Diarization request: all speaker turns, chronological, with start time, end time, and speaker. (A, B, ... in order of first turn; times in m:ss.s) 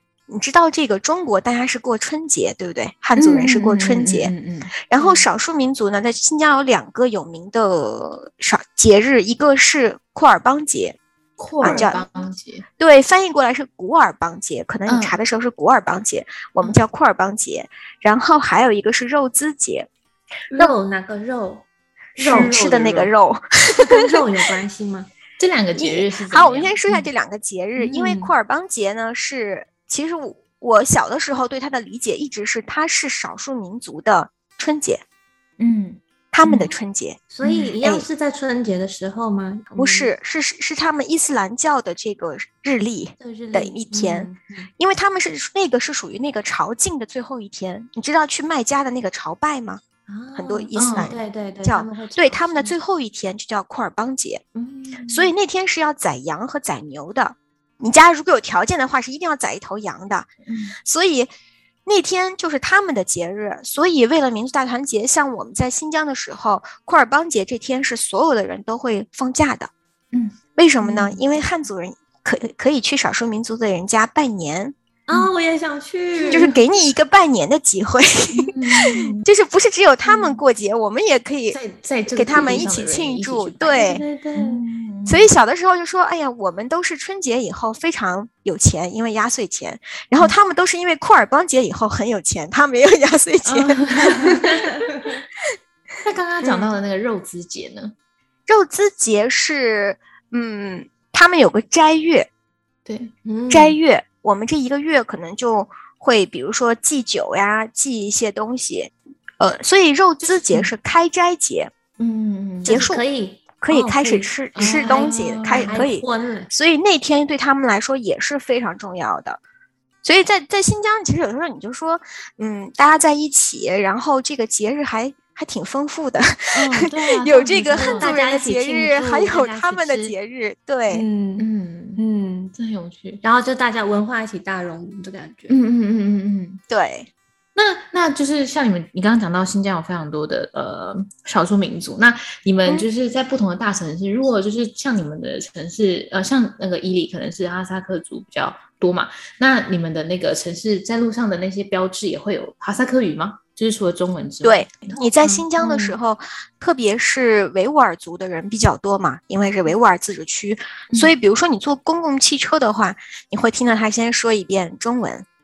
0:00.3-0:04.3 A
0:03.2-0:05.3 B
0:04.9-0:11.0 A
0:11.4-0:12.6 B
0:11.6-0:12.1 A
0:11.6-0:11.9 C
0:12.8-0:19.9 A
0:14.9-0:15.2 B
0:20.5-0:21.6 C
0:22.2-0:23.1 C
0:22.2-0:22.6 B
0:22.3-0:24.2 A
0:23.8-0:25.1 C
0:25.4-0:27.1 B
0:25.8-0:35.0 A
0:27.8-0:28.3 C
0:35.6-0:36.7 B
0:36.3-0:37.2 A
0:37.3-0:40.1 C
0:37.4-0:37.7 B
0:39.8-0:49.8 A
0:43.2-0:44.7 C
0:50.1-0:52.8 C
0:50.4-0:54.4 A
0:50.8-0:51.1 B
0:54.6-0:55.3 C
0:55.1-1:00.3 A
1:00.5-1:00.8 B
1:00.8-1:01.3 A
1:01.9-1:09.7 A
1:10.1-1:11.2 B
1:10.5-1:14.8 A
1:15.1-1:16.5 C
1:16.2-1:16.6 B
1:16.3-1:21.6 A
1:18.4-1:19.2 B
1:20.1-1:20.4 B
1:21.5-1:25.3 B
1:22.1-1:24.0 A
1:22.3-1:22.7 C
1:23.7-1:24.6 C
1:25.1-1:34.5 A
1:33.4-1:34.8 B
1:34.5-1:35.2 C
1:36.0-1:37.9 B
1:36.4-1:36.8 A
1:38.5-1:42.3 A
1:42.9-1:43.1 B
1:43.2-1:43.8 C
1:43.5-1:51.7 A
1:50.3-1:50.7 B
1:52.0-1:52.8 B
1:52.6-1:56.5 C
1:52.7-1:53.0 A
1:53.6-1:59.4 A
1:54.6-1:55.9 B
2:00.0-2:11.1 A
2:06.5-2:08.1 B
2:07.8-2:10.2 C
2:10.9-2:12.5 C
2:11.4-2:12.0 B
2:12.6-2:13.2 B
2:13.2-2:15.6 C
2:15.5-2:16.6 B
2:16.7-2:17.1 A
2:17.6-2:35.0 B
2:34.4-2:45.3 A
2:35.2-2:36.0 C